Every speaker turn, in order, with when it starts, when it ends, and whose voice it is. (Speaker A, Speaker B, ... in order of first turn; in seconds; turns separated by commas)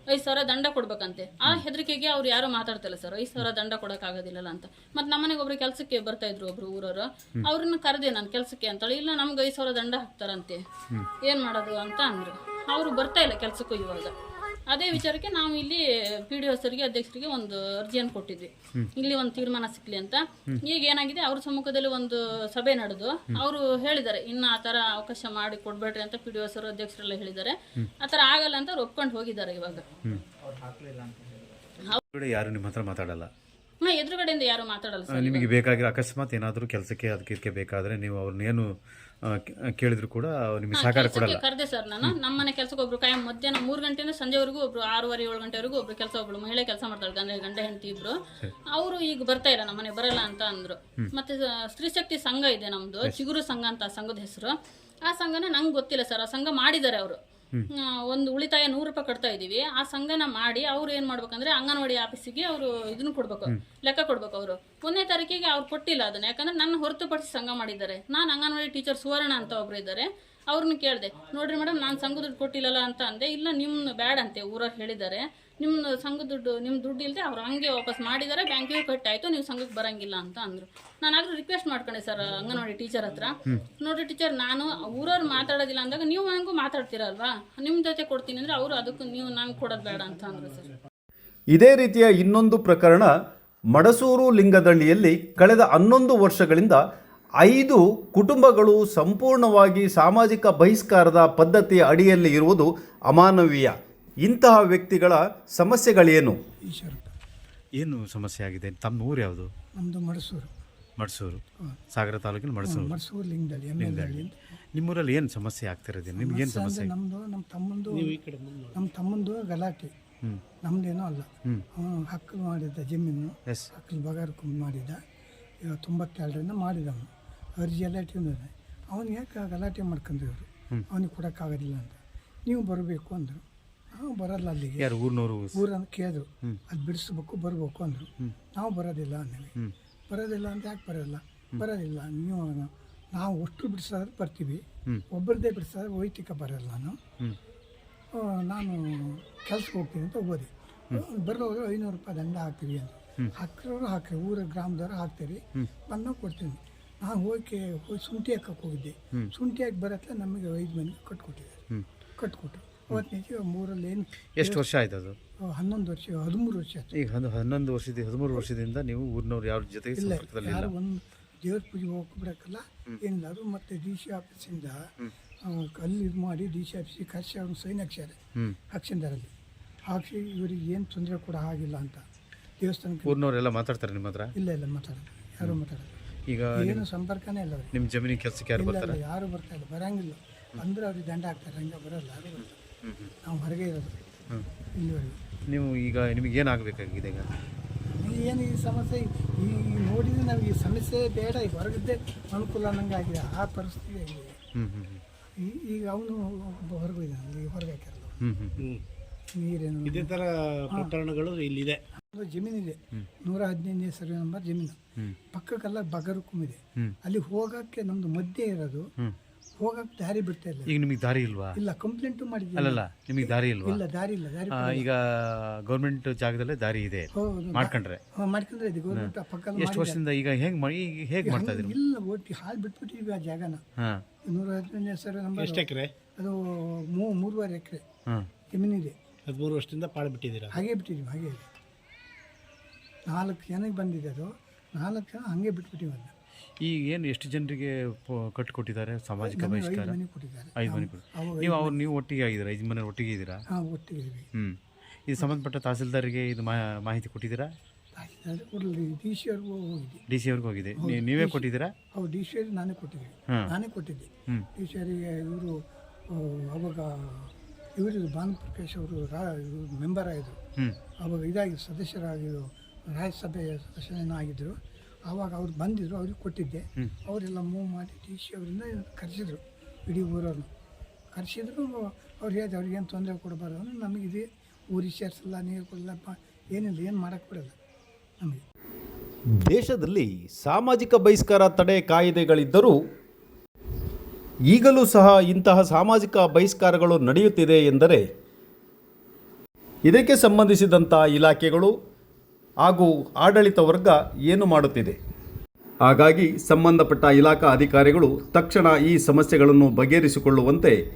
Speaker A: 0.1-14.1, Speaker A: 14.7-29.9, Speaker B: 32.1-33.3, Speaker A: 33.8-35.6, Speaker B: 35.1-38.7, Speaker B: 39.2-41.4, Speaker A: 40.7-54.5, Speaker A: 55.0-57.2, Speaker A: 57.7-90.8, Speaker C: 91.5-93.1, Speaker C: 93.7-96.8, Speaker C: 97.4-106.4, Speaker D: 106.7-107.1, Speaker B: 107.8-109.5, Speaker D: 109.8-110.5, Speaker B: 111.0-111.4, Speaker B: 111.9-112.9, Speaker D: 112.6-114.3, Speaker B: 113.8-116.9, Speaker D: 116.2-118.2, Speaker E: 117.9-118.8, Speaker D: 118.7-119.9, Speaker D: 120.6-125.0, Speaker D: 125.6-133.4, Speaker D: 134.0-134.9, Speaker B: 134.8-135.6, Speaker D: 135.5-139.5, Speaker D: 140.1-147.0, Speaker D: 148.1-161.6, Speaker D: 162.2-164.7, Speaker B: 164.4-165.2, Speaker D: 165.4-166.9, Speaker B: 166.9-170.7, Speaker D: 170.0-174.9, Speaker D: 175.4-178.2, Speaker D: 178.7-179.3, Speaker D: 179.9-182.0, Speaker D: 182.6-183.2, Speaker B: 183.1-184.3, Speaker D: 184.4-185.9, Speaker B: 186.3-186.8, Speaker D: 186.6-187.7, Speaker B: 187.7-189.0, Speaker D: 188.6-192.6, Speaker B: 192.8-193.1, Speaker D: 193.2-193.9, Speaker D: 194.8-195.2, Speaker B: 195.5-197.3, Speaker D: 197.9-204.3, Speaker B: 204.6-205.0, Speaker D: 205.4-208.2, Speaker B: 208.2-208.6, Speaker D: 209.3-210.1, Speaker E: 209.8-211.8, Speaker D: 212.0-214.8, Speaker D: 215.3-218.9, Speaker D: 219.6-220.7, Speaker B: 220.7-221.6, Speaker D: 221.6-224.9, Speaker B: 222.6-223.8, Speaker B: 224.5-228.0, Speaker D: 227.1-230.0, Speaker B: 228.9-231.8, Speaker D: 231.2-233.6, Speaker D: 234.3-237.8, Speaker E: 235.4-235.9, Speaker D: 238.5-239.0, Speaker E: 239.3-240.6, Speaker D: 240.5-241.5, Speaker D: 243.1-246.1, Speaker B: 246.6-250.0, Speaker D: 249.2-251.8, Speaker B: 250.6-253.4, Speaker D: 253.5-254.3, Speaker B: 254.3-257.5, Speaker D: 258.0-260.0, Speaker B: 260.1-261.7, Speaker D: 260.8-265.6, Speaker D: 266.1-270.4, Speaker D: 271.0-274.6, Speaker D: 275.1-280.5, Speaker D: 281.1-287.6, Speaker C: 289.4-292.8, Speaker C: 294.5-298.0, Speaker C: 299.9-301.7, Speaker C: 302.6-305.0, Speaker C: 305.8-310.8